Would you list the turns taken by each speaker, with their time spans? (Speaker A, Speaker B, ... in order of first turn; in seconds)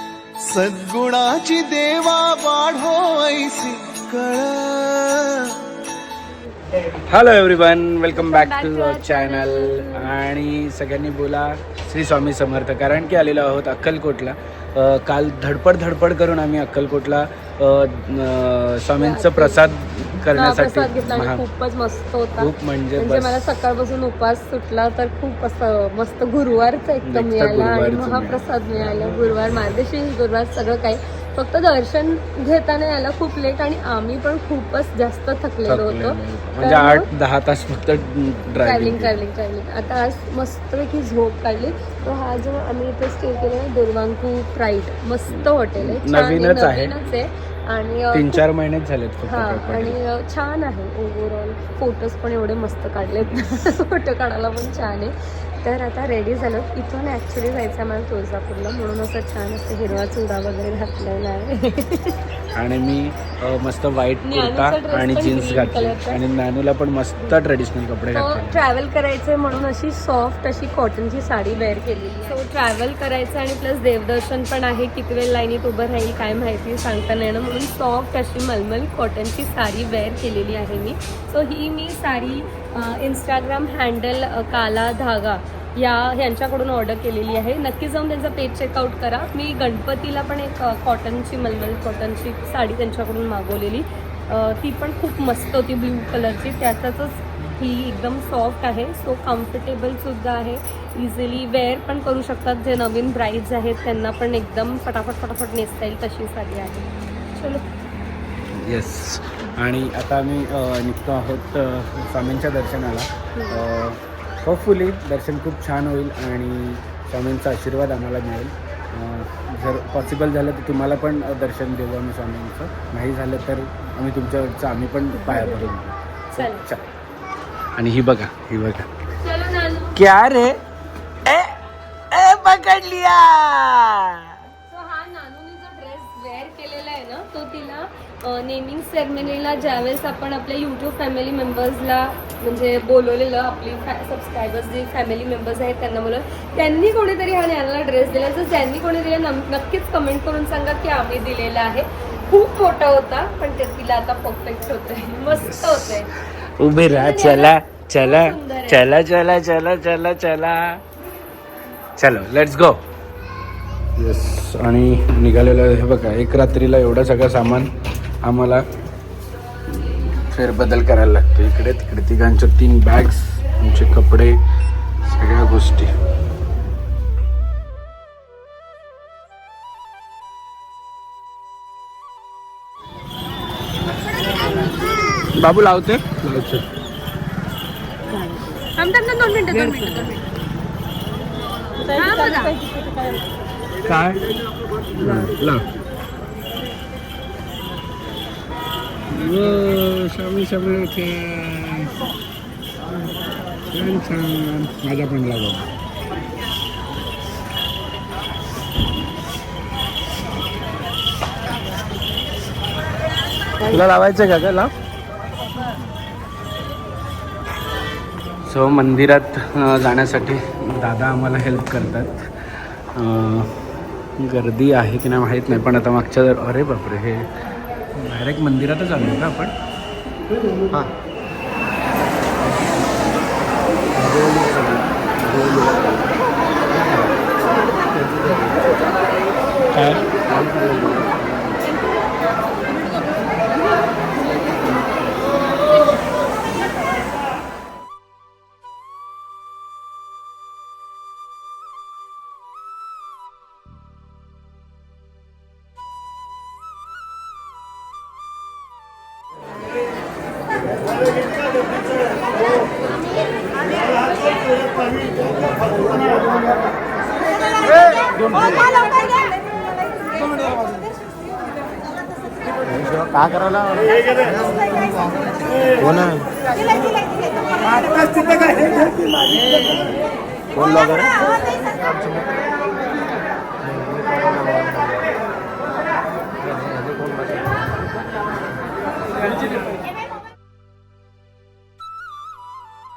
Speaker A: 0.4-5.8
Speaker B: 6.8-21.4, 22.4-23.5, 27.0-28.4, 35.6-39.2, 45.8-46.9, 48.1-50.0, 62.5-68.6, 108.6-126.8, 127.8-128.9, 129.9-130.6, 131.2-131.5, 132.1-134.4, 155.3-156.0, 156.6-160.8, 162.0-162.8, 164.0-167.7, 168.2-168.6, 169.7-174.4, 175.0-175.9, 185.3-186.6, 193.8-194.3, 194.9-195.6, 199.1-201.9, 203.7-205.7, 213.6-214.7, 218.5-223.5, 224.2-227.3, 227.9-229.5, 234.2-234.6, 239.7-240.8
Speaker C: 8.1-10.1, 19.0-19.6, 20.3-37.0, 38.6-48.4, 49.2-62.3, 64.2-66.2, 68.1-107.6, 113.3-113.6, 126.3-126.6, 129.2-130.0, 134.7-156.1, 156.8-158.8, 188.1-190.3, 191.9-192.6
Speaker D: 234.0-234.4, 235.3-235.9, 238.0-238.3, 240.4-241.2, 272.7-273.9, 275.8-276.2, 280.6-281.1, 283.8-284.9, 286.6-287.2